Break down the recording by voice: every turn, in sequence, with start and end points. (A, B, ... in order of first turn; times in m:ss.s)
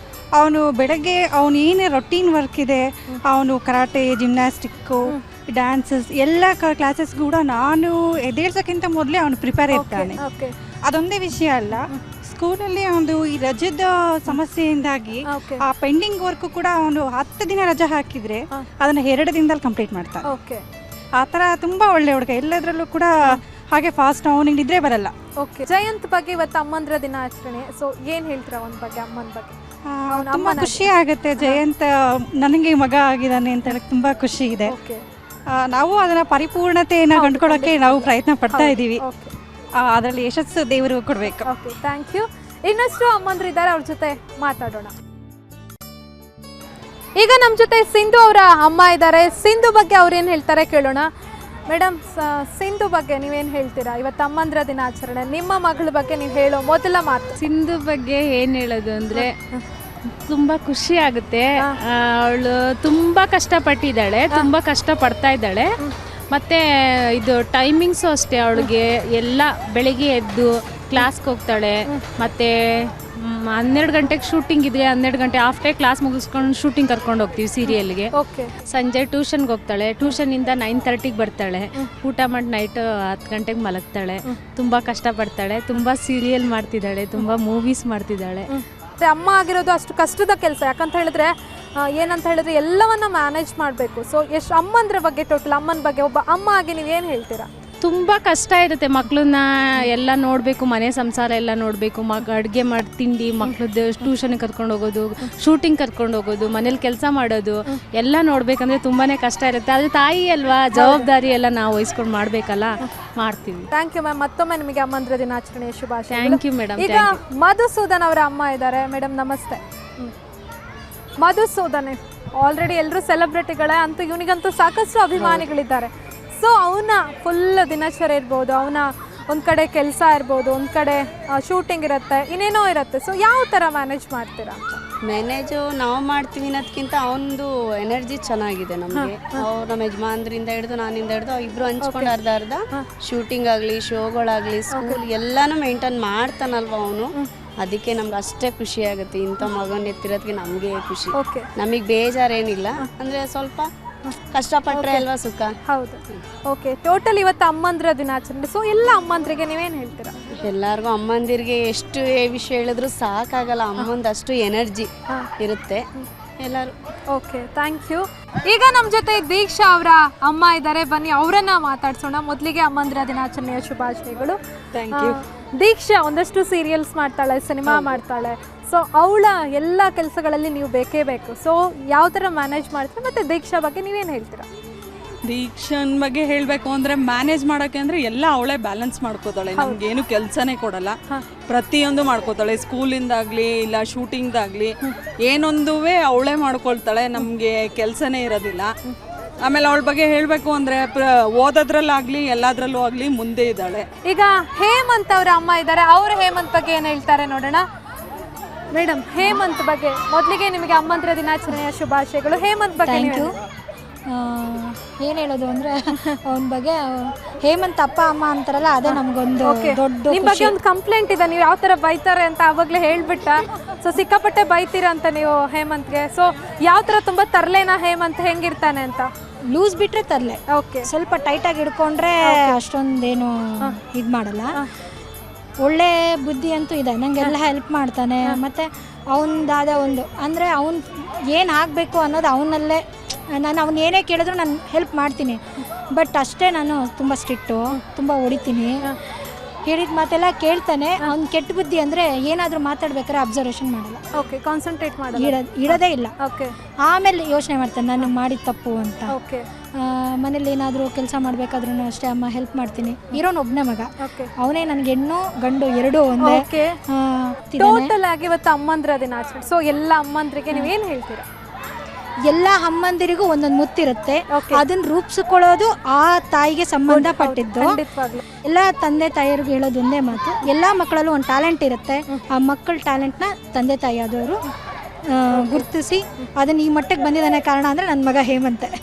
0:00.4-0:10.2 A
0:09.7-0:10.5 B
0:10.9-0:20.2 A
0:15.3-0:15.6 B
0:20.2-0:20.6 B
0:21.2-0:25.1 A
0:25.4-0:29.6 B
0:29.9-0:31.9 A
0:30.1-0:30.9 B
0:32.4-0:34.7 A
0:34.7-0:35.0 B
0:35.6-0:39.0 A
0:37.1-0:39.3 B
0:39.8-0:41.5 A
0:41.4-0:44.9 B
0:47.2-0:51.1 B
0:51.7-0:57.4 B
0:57.4-0:59.3 C
0:59.1-0:59.6 B
1:00.2-1:05.7 C
1:06.3-1:06.6 C
1:07.2-1:18.1 C
1:17.7-1:18.5 B
1:18.6-1:28.5 C
1:28.5-1:37.5 B
1:37.8-1:53.7 C
1:50.7-1:51.1 B
1:53.7-2:00.1 B
1:56.1-1:57.2 C
2:01.2-2:14.8 B
2:15.0-2:27.1 D
2:18.9-2:19.4 B
2:21.8-2:22.1 B
2:24.7-2:25.0 B
2:27.6-2:33.7 D
2:31.1-2:31.5 B
2:34.3-2:35.5 D
2:34.7-2:35.0 B
2:35.6-2:40.2 B
2:40.3-2:45.8 D
2:46.4-2:46.8 D
2:47.1-2:54.4 B
2:54.7-2:55.2 E
2:54.9-3:04.4 B
2:57.7-2:57.9 E
3:05.2-3:11.0 E
3:11.5-3:14.7 E
3:15.2-3:18.7 E
3:19.4-3:23.9 E
3:24.1-3:27.6 B
3:28.7-3:33.3 B
3:32.8-3:33.3 F
3:34.1-3:40.5 F
3:38.8-3:49.1 B
3:49.5-3:54.5 F
3:50.5-3:50.9 B
3:52.2-3:52.6 B
3:55.6-4:05.4 F
4:05.9-4:08.9 F
4:09.7-4:14.0 F
4:14.1-4:16.6 B
4:15.2-4:16.1 F
4:16.8-4:19.1 F
4:19.1-4:19.5 B
4:19.8-4:27.9 F
4:24.0-4:24.3 B
4:26.2-4:26.8 B
4:27.6-4:31.3 B
4:32.3-4:37.7 F
4:34.3-4:34.6 B
4:36.9-4:38.2 B
4:38.5-4:44.4 F
4:45.1-4:48.7 F
4:45.3-4:46.3 B